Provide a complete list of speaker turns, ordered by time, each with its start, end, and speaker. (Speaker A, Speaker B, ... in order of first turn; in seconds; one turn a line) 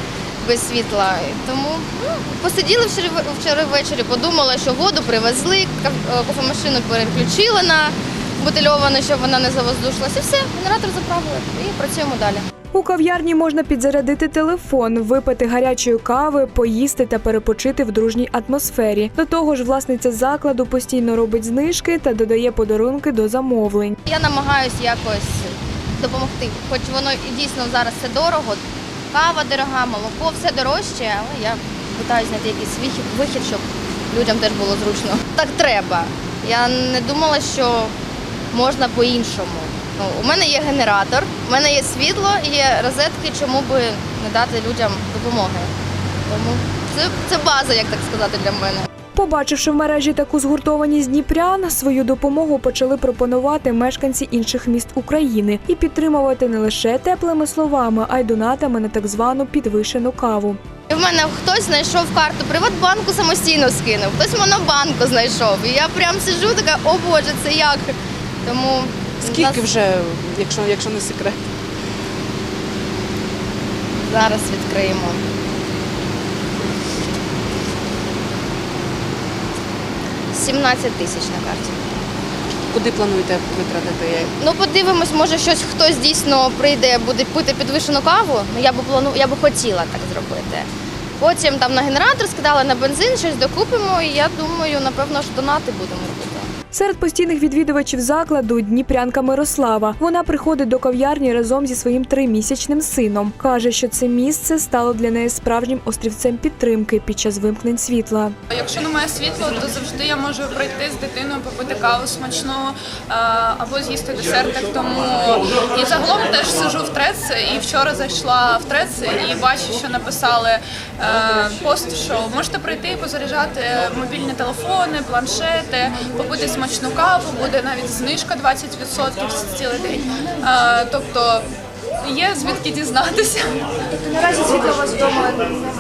Speaker A: 0.4-12.4
Speaker B: 12.7-24.0
Speaker A: 24.1-37.9
Speaker A: 38.5-45.7
Speaker A: 46.3-48.9
Speaker B: 49.1-60.6
Speaker A: 60.9-67.9
Speaker A: 68.4-69.7
Speaker C: 69.2-71.4
Speaker A: 74.0-75.2
Speaker A: 80.3-81.8
Speaker C: 82.7-84.3
Speaker A: 84.4-90.7
Speaker A: 91.2-96.5
Speaker B: 96.7-108.3
Speaker D: 108.5-131.5
Speaker D: 132.0-133.6
Speaker A: 134.4-135.3